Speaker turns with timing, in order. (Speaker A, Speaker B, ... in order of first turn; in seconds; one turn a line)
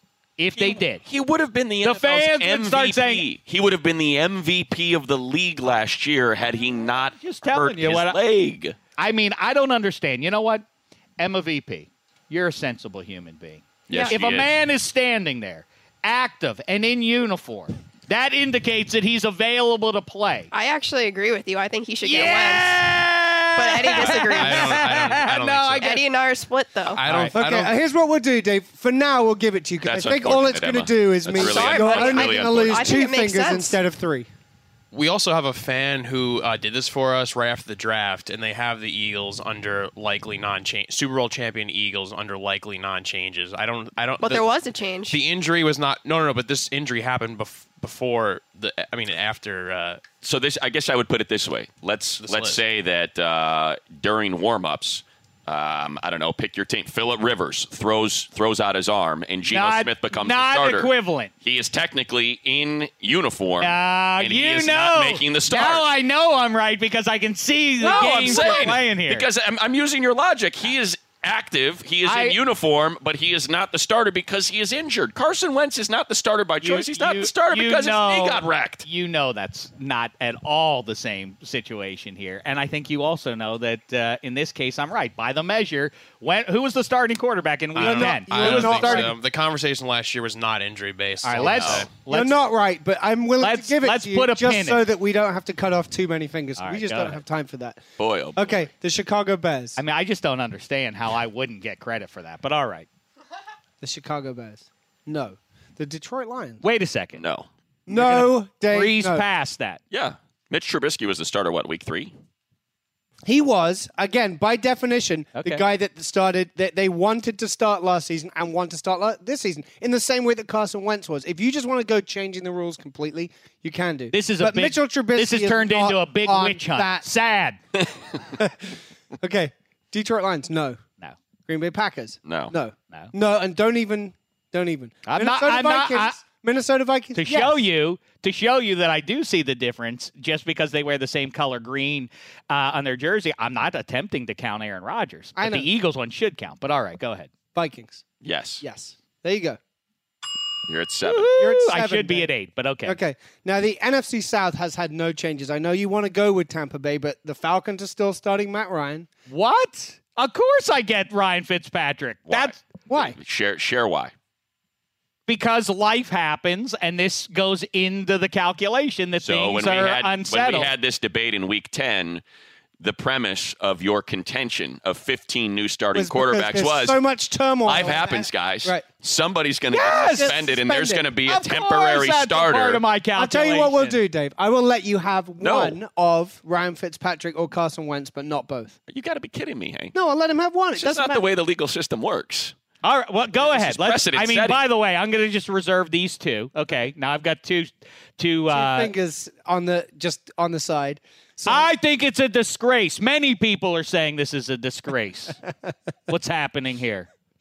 Speaker A: 0.4-1.0
Speaker B: 0.6-8.8
Speaker A: 1.8-3.2
Speaker A: 7.2-8.2
Speaker A: 9.0-10.6
Speaker A: 11.2-20.5
Speaker B: 13.9-14.5
Speaker C: 20.5-23.0
Speaker A: 22.0-26.0
Speaker C: 23.6-24.9
Speaker D: 24.0-26.0
Speaker C: 25.8-27.0
Speaker D: 27.0-27.7
Speaker A: 27.0-27.3
Speaker E: 27.3-34.3
Speaker B: 29.8-33.0
Speaker C: 31.3-33.8
Speaker D: 34.9-44.5
Speaker C: 44.2-45.2
Speaker D: 45.1-50.0
Speaker B: 50.2-65.9
Speaker D: 52.2-52.6
Speaker A: 59.5-61.3
Speaker A: 63.6-69.3
Speaker B: 67.8-78.8
Speaker E: 68.3-68.7
Speaker A: 72.0-72.4
Speaker A: 76.6-89.1
Speaker D: 87.7-91.9
Speaker E: 87.8-89.1
Speaker A: 91.2-92.3
Speaker B: 91.4-91.9
Speaker E: 92.1-97.8
Speaker A: 93.4-94.8
Speaker A: 96.6-97.2
Speaker B: 98.0-98.7
Speaker E: 98.3-99.8
Speaker A: 99.8-102.9
Speaker E: 103.8-106.6
Speaker A: 106.6-107.2
Speaker B: 107.2-107.5
Speaker E: 107.9-109.2
Speaker A: 107.9-109.8
Speaker B: 109.9-112.1
Speaker E: 113.2-127.1
Speaker A: 115.3-115.6
Speaker A: 124.1-127.6
Speaker E: 128.3-130.8
Speaker E: 131.5-137.6
Speaker B: 132.2-132.5
Speaker A: 135.1-136.2
Speaker A: 137.1-147.3
Speaker E: 145.3-145.7
Speaker E: 147.5-148.0
Speaker B: 148.2-148.6
Speaker E: 148.6-149.6
Speaker B: 150.7-151.3
Speaker A: 151.0-153.0
Speaker E: 151.3-152.3
Speaker E: 152.8-159.1
Speaker A: 159.3-162.6
Speaker B: 162.3-164.1
Speaker E: 162.9-163.2
Speaker A: 165.3-170.7
Speaker B: 169.2-172.2
Speaker B: 172.8-177.0
Speaker E: 175.9-178.8
Speaker B: 177.6-182.8
Speaker A: 179.7-180.4
Speaker E: 179.7-181.1
Speaker A: 181.2-184.0
Speaker E: 183.1-188.8
Speaker B: 185.4-185.8
Speaker B: 188.9-189.9
Speaker E: 189.9-191.2
Speaker B: 190.8-192.5
Speaker A: 192.8-198.9
Speaker B: 193.4-194.6
Speaker E: 198.5-201.7
Speaker A: 201.4-205.4
Speaker A: 206.1-207.1